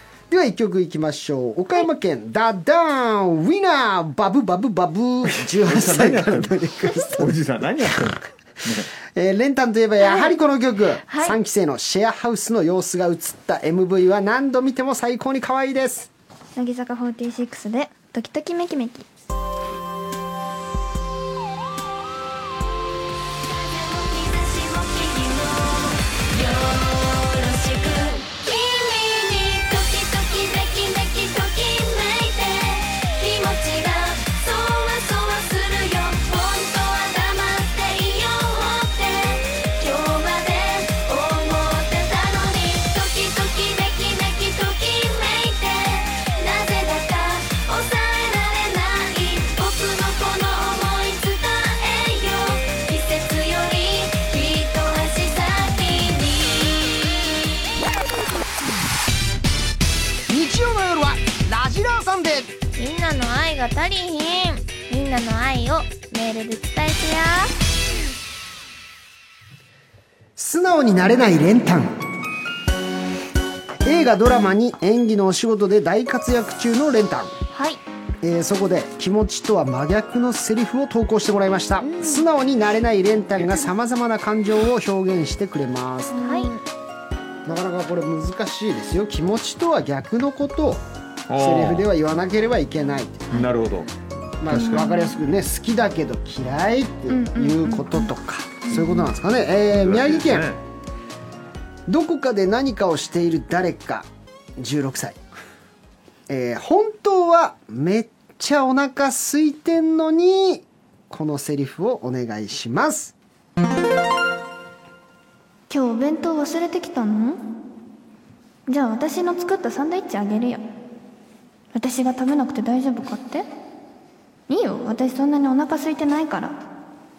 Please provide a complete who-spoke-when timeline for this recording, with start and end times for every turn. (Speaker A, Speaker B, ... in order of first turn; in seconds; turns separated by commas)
Speaker A: 0.3-7.3, Speaker B: 5.3-8.9, Speaker A: 9.1-16.1, Speaker C: 11.1-11.4, Speaker D: 16.5-19.1, Speaker E: 23.4-57.3, Speaker A: 60.3-62.5, Speaker C: 62.8-67.5, Speaker A: 70.4-72.0, Speaker A: 73.8-77.3, Speaker C: 77.5-77.8, Speaker A: 78.2-86.2, Speaker C: 81.8-82.2, Speaker C: 86.1-86.6, Speaker D: 86.2-86.5, Speaker A: 87.5-90.8, Speaker B: 91.3-91.9, Speaker A: 91.3-93.5, Speaker B: 93.3-93.9, Speaker A: 94.4-100.5, Speaker B: 94.5-94.8, Speaker D: 94.5-95.1, Speaker D: 97.1-98.1, Speaker D: 98.7-98.9, Speaker B: 99.7-100.6, Speaker A: 101.9-105.2, Speaker A: 106.3-113.1, Speaker D: 115.7-117.6, Speaker D: 118.7-120.6, Speaker D: 121.7-123.5, Speaker D: 124.5-126.6